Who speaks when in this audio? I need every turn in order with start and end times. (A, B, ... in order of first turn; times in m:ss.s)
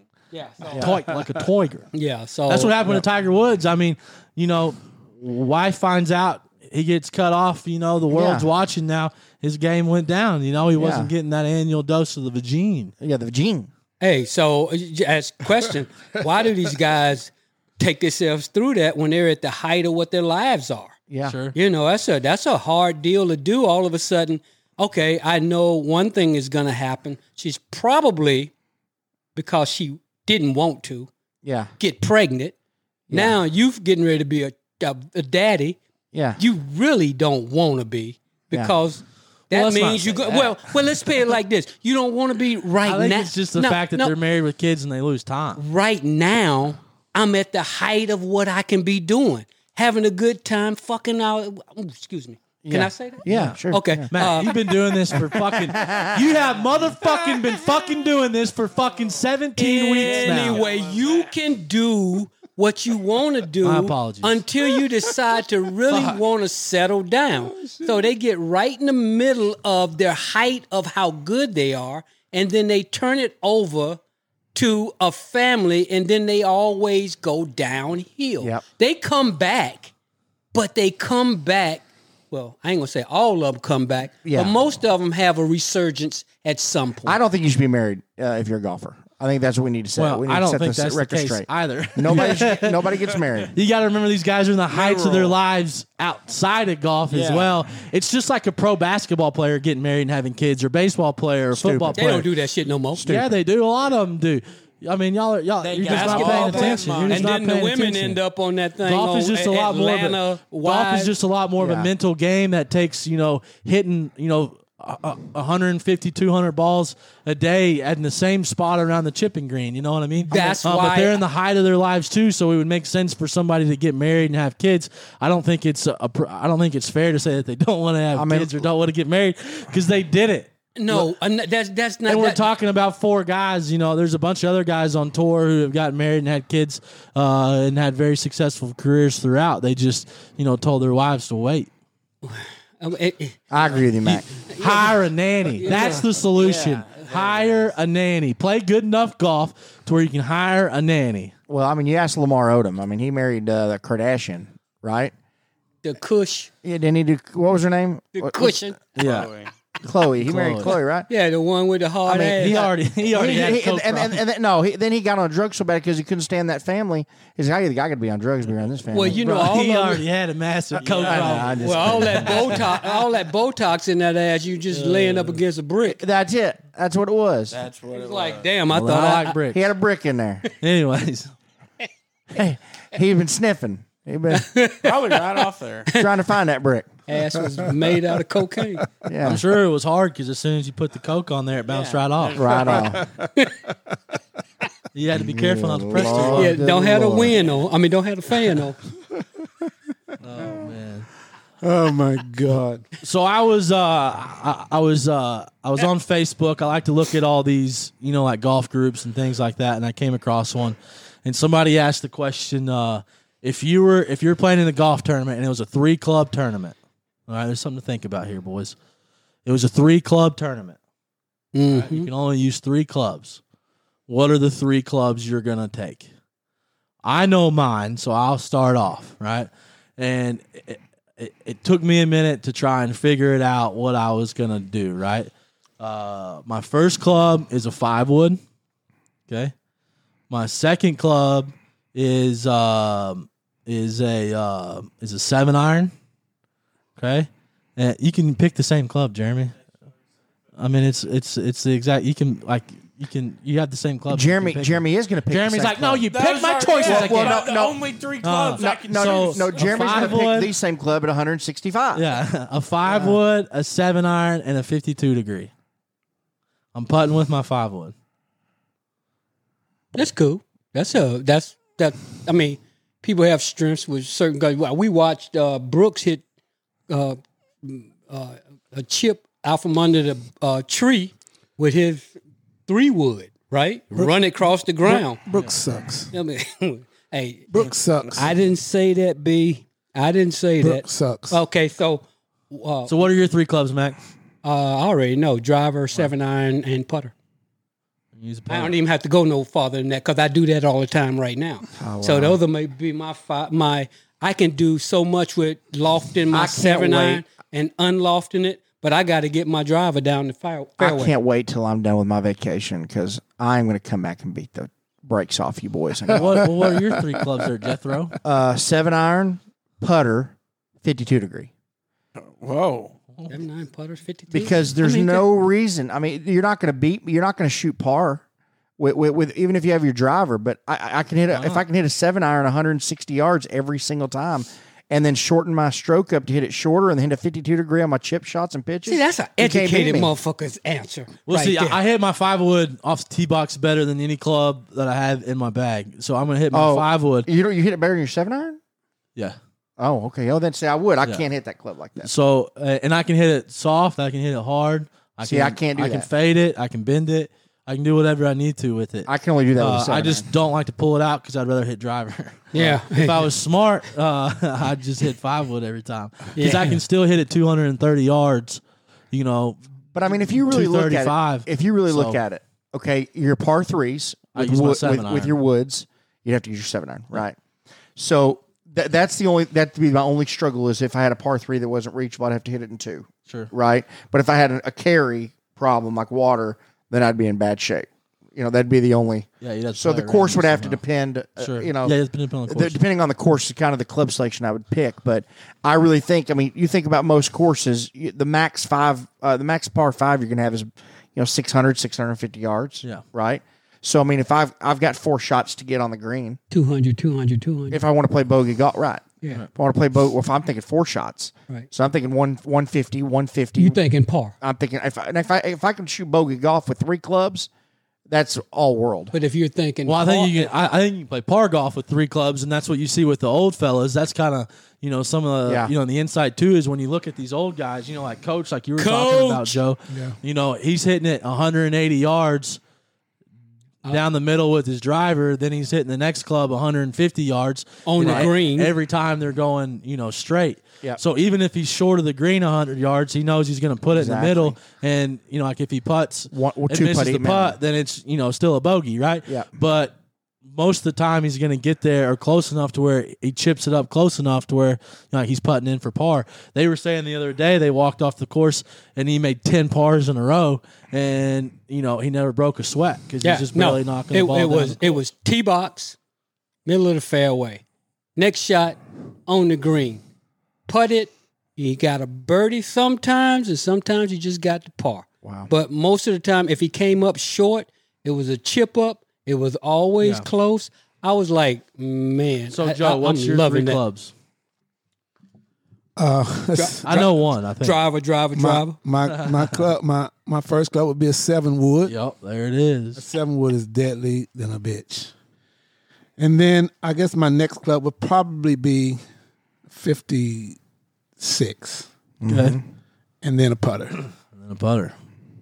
0:00.3-0:00.8 A
0:00.7-0:01.0 B
0:00.8-0:01.9 C
0:01.9-0:02.7 A
0:02.5-0:12.9 C
0:08.1-0:08.4 B
0:10.8-0:11.1 B
0:13.0-0:13.7 B
0:14.0-0:21.0 A
0:21.1-0:21.3 B
0:21.2-0:21.5 C
0:21.5-0:28.5 A
0:29.3-0:31.1 A
0:31.4-0:31.7 B
0:31.8-0:32.5 A
0:33.1-0:33.4 B
0:33.1-0:35.8 A
0:36.1-0:36.4 B
0:36.4-0:44.1 A
0:39.5-0:40.6 C
0:42.8-0:45.6 C
0:45.6-0:54.5 A
0:52.6-0:54.1 B
0:53.3-1:00.6 C
0:55.5-0:56.3 B
0:59.6-1:14.0 A
1:00.0-1:01.3 D
1:03.6-1:04.4 C
1:14.5-1:19.9 A
1:20.5-1:27.2 A
1:24.2-1:24.5 B
1:27.0-1:33.5 B
1:30.0-1:33.0 C
1:33.5-1:42.3 C
1:34.7-1:35.3 D
1:37.1-1:37.5 D
1:41.5-1:42.2 B
1:41.9-1:43.0 A
1:43.0-1:43.3 B
1:43.0-1:48.2 C
1:45.6-1:47.3 D
1:45.9-1:51.1 A
1:48.8-2:10.5 C
1:51.6-1:51.9 B
2:00.3-2:01.2 A
2:08.1-2:08.7 B
2:10.8-2:12.4 A
2:12.1-2:21.7 C
2:22.2-2:25.0 A
2:23.5-2:24.3 B
2:24.0-2:31.3 C
2:25.6-2:26.1 A
2:25.7-2:27.7 D
2:31.5-2:35.1 B
2:35.8-2:36.5 A
2:36.6-2:38.6 B
2:38.1-2:38.8 A
2:39.0-2:39.3 C
2:39.0-2:39.5 D
2:39.8-2:41.1 B
2:40.2-2:40.8 C
2:41.1-2:42.7 A
2:42.0-2:49.2 B
2:42.4-2:44.2 C
2:48.9-2:50.0 A
2:49.1-2:52.6 C
2:50.8-2:51.5 D
2:50.8-2:52.7 B
2:51.4-2:56.0 A
2:54.7-2:55.4 C
2:55.8-2:57.6 B
2:57.5-2:58.5 D
2:57.9-2:59.4 A
2:58.7-2:59.6 C
2:59.5-3:00.5 B
3:00.6-3:01.3 C
3:02.3-3:04.5 B
3:04.3-3:05.4 A
3:04.8-3:05.9 D
3:05.9-3:06.9 B
3:07.1-3:08.9 A
3:07.4-3:08.1 E
3:09.0-3:09.4 B
3:09.2-3:12.7 C
3:11.7-3:13.0 D
3:12.4-3:13.0 B
3:13.3-3:13.6 A
3:14.9-3:16.6 C
3:15.2-3:17.5 B
3:16.0-3:18.8 A
3:20.2-3:21.1 C
3:21.6-3:22.8 E
3:23.0-3:36.8 C
3:37.3-3:38.8 C
3:39.4-3:40.8 C
3:41.5-3:42.1 A
3:41.7-3:43.4 C
3:44.1-3:46.1 C
3:47.0-3:58.4 C
3:59.3-3:59.5 C
4:00.3-4:05.9 C
4:07.0-4:09.6 C
4:10.6-4:17.5 C
4:14.1-4:16.1 B
4:16.1-4:20.2 D
4:16.8-4:17.9 B
4:18.2-4:20.5 C
4:18.6-4:22.1 B
4:21.9-4:25.5 C
4:22.8-4:23.2 B
4:26.7-4:27.9 C
4:29.9-4:36.2 A
4:36.9-4:42.1 A
4:42.7-4:45.2 A
4:44.8-4:46.1 E
4:46.1-4:52.9 A
4:47.5-4:48.3 E
4:50.6-4:51.4 E
4:52.8-4:54.0 C
4:54.4-4:57.1 A
4:58.2-4:58.7 C
4:58.5-5:11.1 A
5:01.8-5:02.4 B
5:06.3-5:07.2 B
5:10.8-5:16.5 B
5:16.1-5:18.2 C
5:18.2-5:21.5 B
5:22.2-5:23.0 D
5:23.3-5:25.3 A
5:24.3-5:28.2 B
5:28.8-5:40.1 B
5:31.3-5:31.6 C
5:38.8-5:41.8 A
5:41.3-5:47.3 C
5:46.5-5:48.6 B
5:49.8-5:52.1 B
5:52.0-6:08.6 C
5:55.2-5:56.1 B
5:59.1-6:00.2 B
6:02.5-6:03.3 A
6:06.4-6:06.8 A
6:09.1-6:12.2 C
6:09.9-6:17.4 B
6:14.3-6:15.3 C
6:18.0-6:32.0 B
6:29.4-6:30.8 C
6:31.4-6:32.8 C
6:32.5-6:46.4 B
6:46.5-6:47.8 A
6:47.7-6:53.8 B
6:53.6-6:54.3 A
6:54.4-6:57.5 B
6:58.1-6:59.1 B
6:59.1-7:00.5 A
6:59.8-7:12.6 C
7:05.4-7:05.7 B
7:08.8-7:09.6 A
7:09.9-7:10.2 E
7:13.9-7:45.0 C
7:17.8-7:18.7 A
7:23.9-7:24.6 B
7:26.3-7:27.6 B
7:43.2-7:46.0 A
7:46.6-7:47.6 A
7:48.2-7:50.0 A
7:50.7-8:03.8 A
7:55.2-7:55.5 B
8:00.0-8:00.2 C
8:02.5-8:04.1 C
8:06.0-8:07.1 E
8:06.5-8:08.8 A
8:06.8-8:07.8 C
8:08.3-8:11.9 E
8:09.1-8:09.5 C
8:11.8-8:13.0 C
8:13.0-8:15.1 E
8:16.2-8:19.0 E
8:19.7-8:20.6 E
8:21.2-8:21.9 E
8:22.2-8:22.6 B
8:22.3-8:22.6 C
8:23.2-8:24.0 E
8:24.2-8:25.0 C